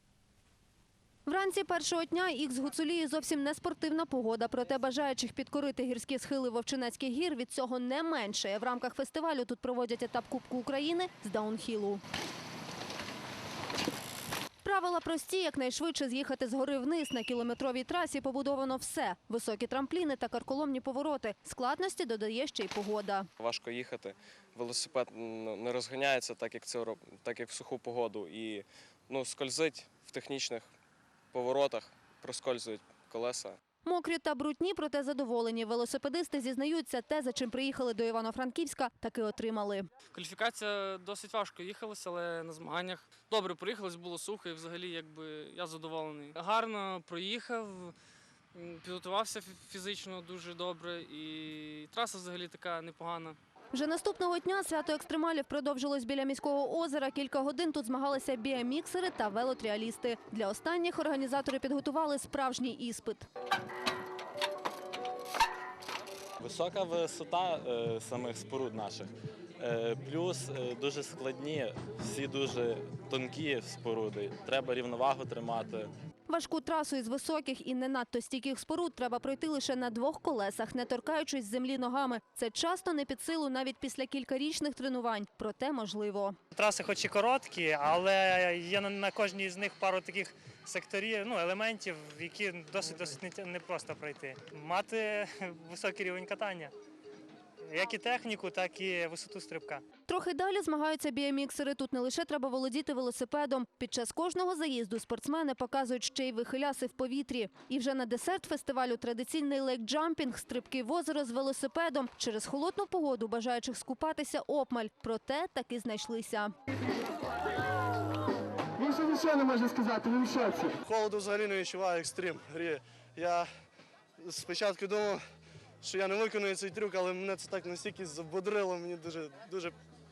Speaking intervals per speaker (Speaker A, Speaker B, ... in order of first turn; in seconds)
Speaker A: 1.3-12.0, 14.6-23.3, 33.8-39.9, 53.7-63.3, 76.3-86.4, 100.1-116.5
Speaker B: 23.4-30.7, 31.3-33.6
Speaker C: 40.1-48.0, 48.5-53.4
Speaker D: 66.4-75.9
Speaker E: 86.5-96.7, 97.6-99.8
Speaker F: 118.8-120.7
Speaker G: 119.0-119.5, 120.6-123.5, 124.2-125.2, 125.8-129.8